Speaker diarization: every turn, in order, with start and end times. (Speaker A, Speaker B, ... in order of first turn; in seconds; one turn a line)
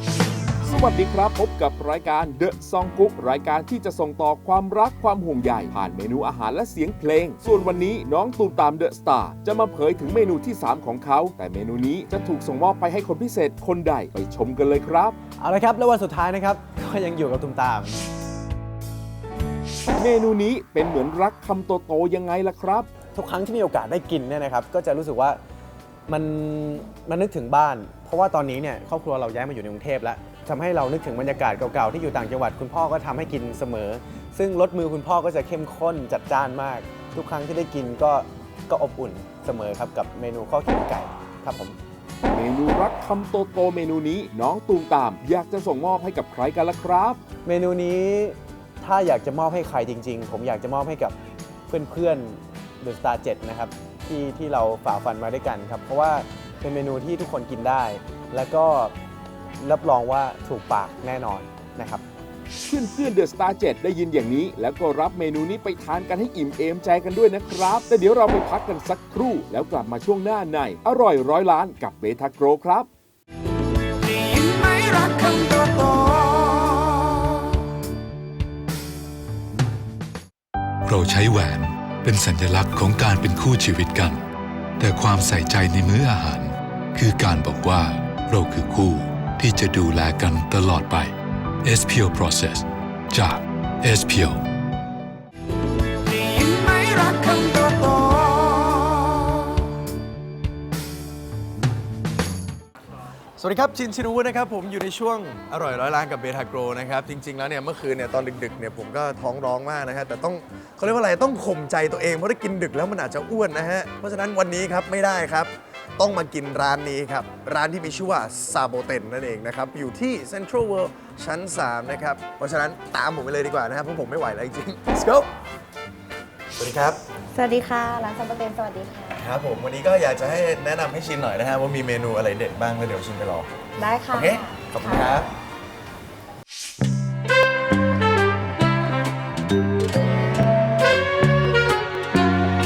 Speaker A: 0.6-15.2
Speaker B: 15.4-18.0
Speaker A: 20.0-22.9
Speaker B: 23.1-25.4
Speaker B: 26.1-41.8
Speaker A: 42.3-47.2
Speaker B: 47.4-51.2
Speaker B: 51.7-58.9
Speaker B: 59.6-62.0
Speaker A: 62.6-72.9
Speaker C: 80.8-84.2
Speaker C: 84.8-94.4
Speaker D: 103.4-125.3
Speaker D: 126.6-127.0
Speaker E: 127.3-129.1
Speaker D: 129.2-135.3
Speaker E: 133.8-135.0